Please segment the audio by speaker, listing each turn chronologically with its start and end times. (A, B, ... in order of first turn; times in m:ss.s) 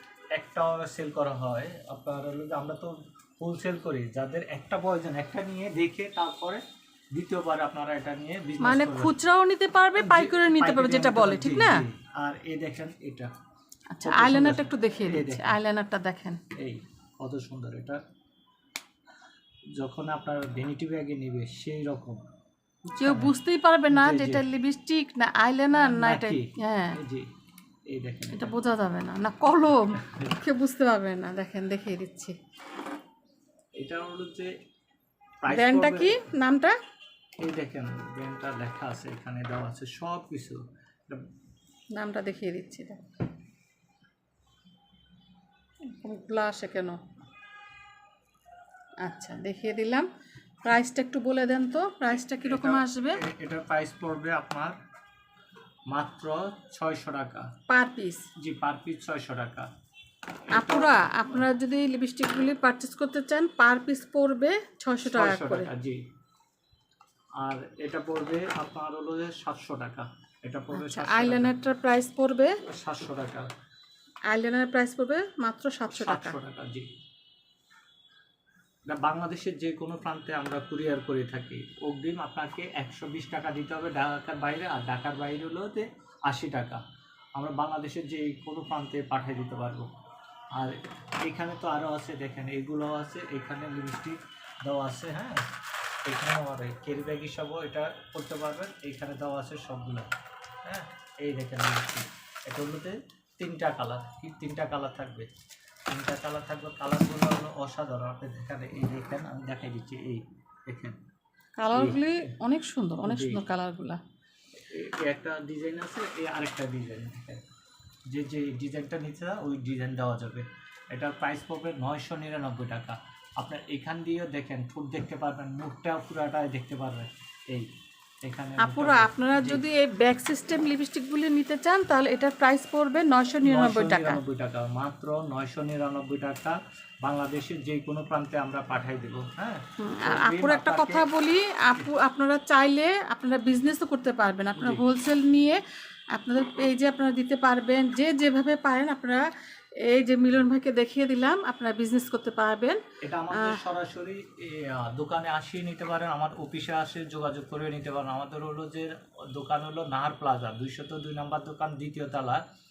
0:00.3-0:09.1 A
0:08.6-0:11.8 B
0:10.0-0:13.3 A
0:13.9-0:16.4 B
0:14.0-0:15.6 A
0:16.6-0:18.0 A
0:19.7-0:22.2 A
0:22.9-0:23.3 A
0:23.0-0:27.0 B
0:23.9-0:24.4 A
0:25.8-0:27.3 A
0:27.9-0:28.5 A
0:28.3-0:32.3 B
0:30.0-0:30.4 A
0:33.8-0:34.5 A
0:35.4-0:36.2 A
0:35.5-0:36.7 B
0:37.4-0:41.2 A
0:42.0-0:43.0 B
0:45.9-0:47.0 B
0:49.0-0:50.1 B
0:50.6-0:53.2 B
0:52.4-0:54.8 A
0:55.9-0:57.5 A
0:57.7-0:58.2 B
0:58.4-0:59.7 A
1:00.5-1:01.4 A
1:00.5-1:05.7 B
1:05.0-1:06.0 A
1:07.4-1:11.5 A
1:10.7-1:12.6 B
1:12.7-1:13.5 A
1:14.3-1:16.4 B
1:15.9-1:16.9 A
1:18.9-1:26.8 A
1:27.4-1:29.9 A
1:30.6-1:35.4 A
1:36.0-1:40.1 A
1:40.6-1:45.3 A
1:45.9-1:51.0 A
1:51.6-1:54.0 B
1:51.7-1:52.0 A
1:53.0-1:53.4 A
1:54.7-1:57.4 A
1:58.1-2:07.7 A
2:08.2-2:09.6 A
2:08.6-2:14.2 B
2:13.4-2:21.1 A
2:19.8-2:25.6 B
2:24.6-2:24.8 A
2:26.1-2:29.2 B
2:29.8-2:32.8 B
2:33.0-2:42.4 A
2:33.3-2:33.6 B